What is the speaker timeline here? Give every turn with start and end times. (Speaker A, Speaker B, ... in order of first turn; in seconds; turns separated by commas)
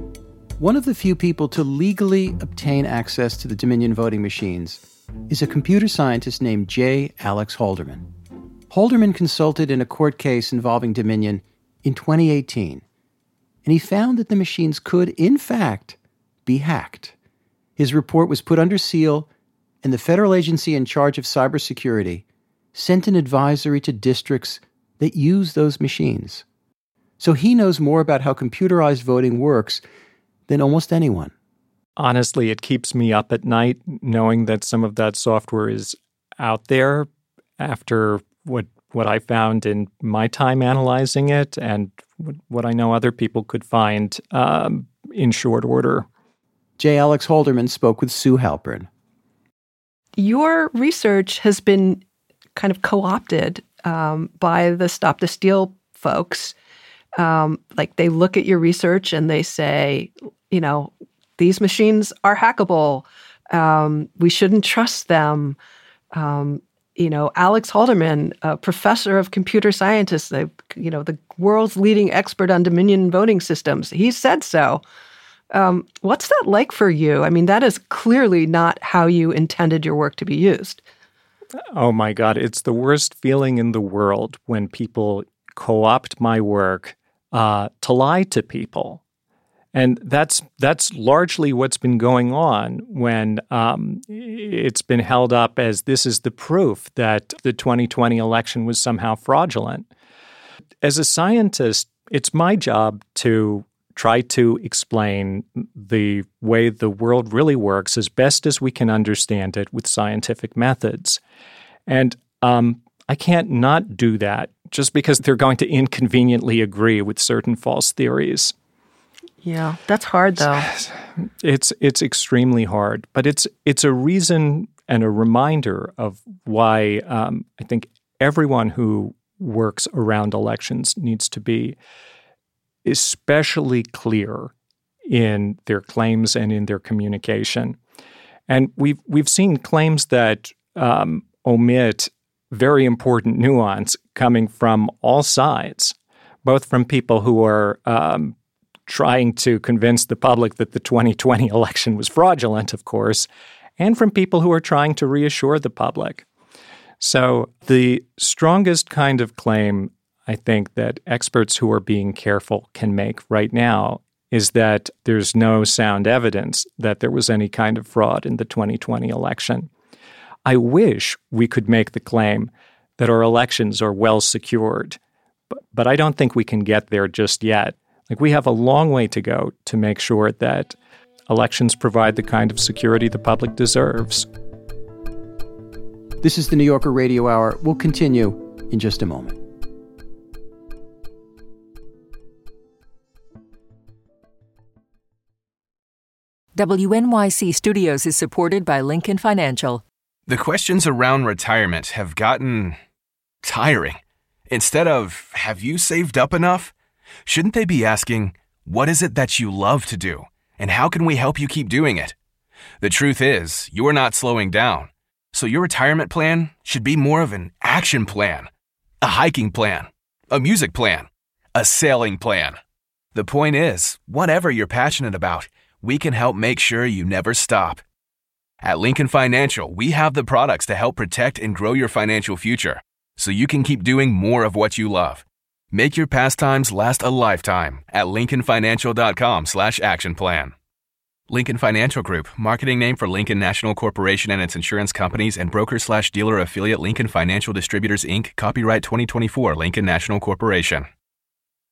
Speaker A: 0.6-8.1, Speaker A: 8.7-12.8, Speaker A: 13.7-17.1, Speaker A: 17.8-19.3, Speaker A: 19.8-22.2, Speaker A: 22.8-26.4, Speaker A: 27.2-29.8, Speaker A: 30.5-31.3, Speaker B: 32.0-37.1, Speaker B: 37.6-46.1, Speaker A: 46.8-48.9, Speaker C: 50.2-52.0, Speaker C: 52.6-56.5, Speaker C: 57.2-65.6, Speaker C: 66.1-74.8, Speaker C: 75.5-80.8, Speaker B: 81.8-89.0, Speaker B: 89.7-99.9, Speaker B: 100.8-111.2, Speaker B: 111.9-118.5, Speaker C: 119.4-120.7, Speaker B: 120.8-131.8, Speaker B: 132.8-134.5, Speaker B: 135.1-137.8, Speaker B: 138.5-148.3, Speaker B: 148.9-156.3, Speaker B: 157.0-169.7, Speaker B: 170.4-175.0, Speaker B: 175.7-180.8, Speaker B: 181.3-184.3, Speaker A: 186.2-189.4, Speaker D: 196.6-199.8, Speaker E: 200.3-202.8, Speaker E: 203.4-206.7, Speaker E: 207.3-212.2, Speaker E: 212.8-218.5, Speaker E: 219.0-222.6, Speaker E: 223.2-227.8, Speaker E: 228.6-240.5, Speaker E: 241.3-250.9